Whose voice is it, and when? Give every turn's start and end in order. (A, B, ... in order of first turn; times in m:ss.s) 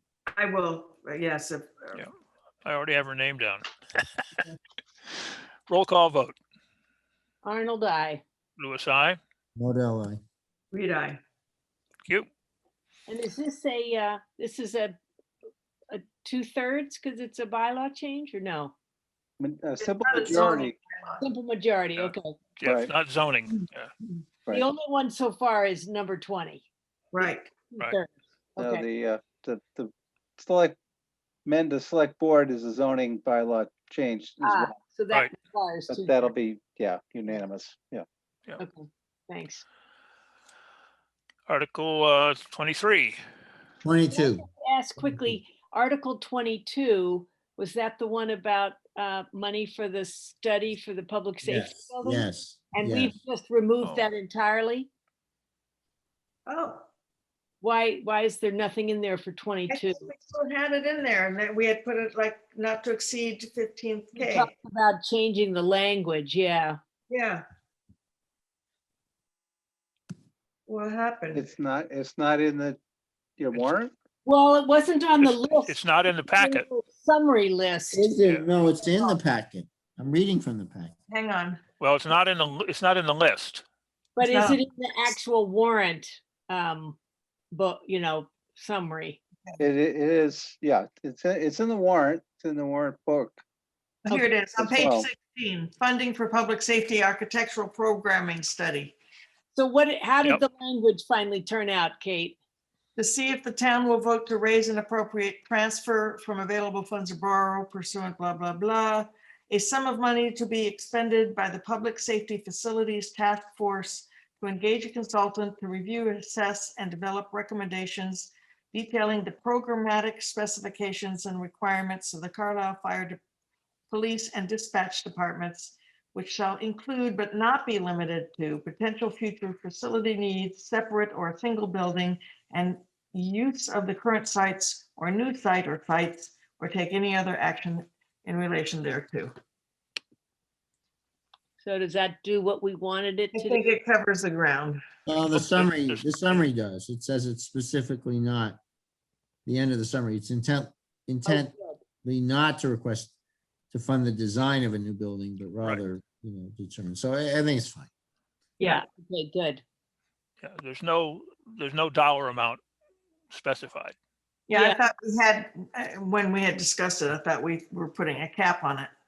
0:00.3-0:02.0 A
0:02.6-0:03.6 B
0:05.1-0:06.4 B
0:07.4-0:08.2 C
0:08.6-0:09.2 B
0:09.6-0:10.2 D
0:10.7-0:11.2 A
0:13.1-0:15.0 C
0:15.9-0:18.7 C
0:19.4-0:20.7 E
0:19.8-0:21.2 A
0:21.2-0:22.4 C
0:22.0-0:23.9 B
0:22.6-0:22.9 E
0:24.5-0:26.6 C
0:27.1-0:27.5 A
0:27.7-0:28.8 C
0:28.6-0:30.8 E
0:31.4-0:34.7 E
0:34.4-0:36.3 C
0:35.9-0:38.0 E
0:38.6-0:39.6 C
0:41.5-0:43.2 B
0:43.8-0:44.4 D
0:44.1-0:54.9 C
0:45.0-0:45.3 D
0:51.4-0:53.2 D
0:53.8-0:54.1 B
0:56.5-0:56.8 A
0:57.6-1:00.0 C
0:59.7-1:04.5 A
1:04.2-1:06.8 C
1:07.1-1:07.4 A
1:10.7-1:11.4 A
1:11.3-1:12.8 E
1:13.4-1:13.9 E
1:14.2-1:18.1 C
1:15.2-1:16.6 B
1:17.9-1:21.0 D
1:18.8-1:19.1 A
1:21.1-1:21.6 A
1:21.8-1:23.6 B
1:24.2-1:27.0 C
1:24.2-1:24.6 A
1:27.5-1:29.2 C
1:29.6-1:33.4 E
1:34.0-1:38.9 A
1:34.5-1:35.1 E
1:39.5-1:42.4 C
1:43.0-2:03.2 A
2:03.9-2:19.3 A
2:21.6-2:23.6 C
2:23.3-2:24.8 A
2:25.0-2:28.6 D
2:25.1-2:26.4 B
2:29.4-2:33.1 D
2:33.7-2:37.9 D
2:38.6-2:39.6 C
2:40.4-2:42.6 B
2:43.3-2:43.9 B
2:44.5-2:48.9 A
2:44.5-2:44.8 C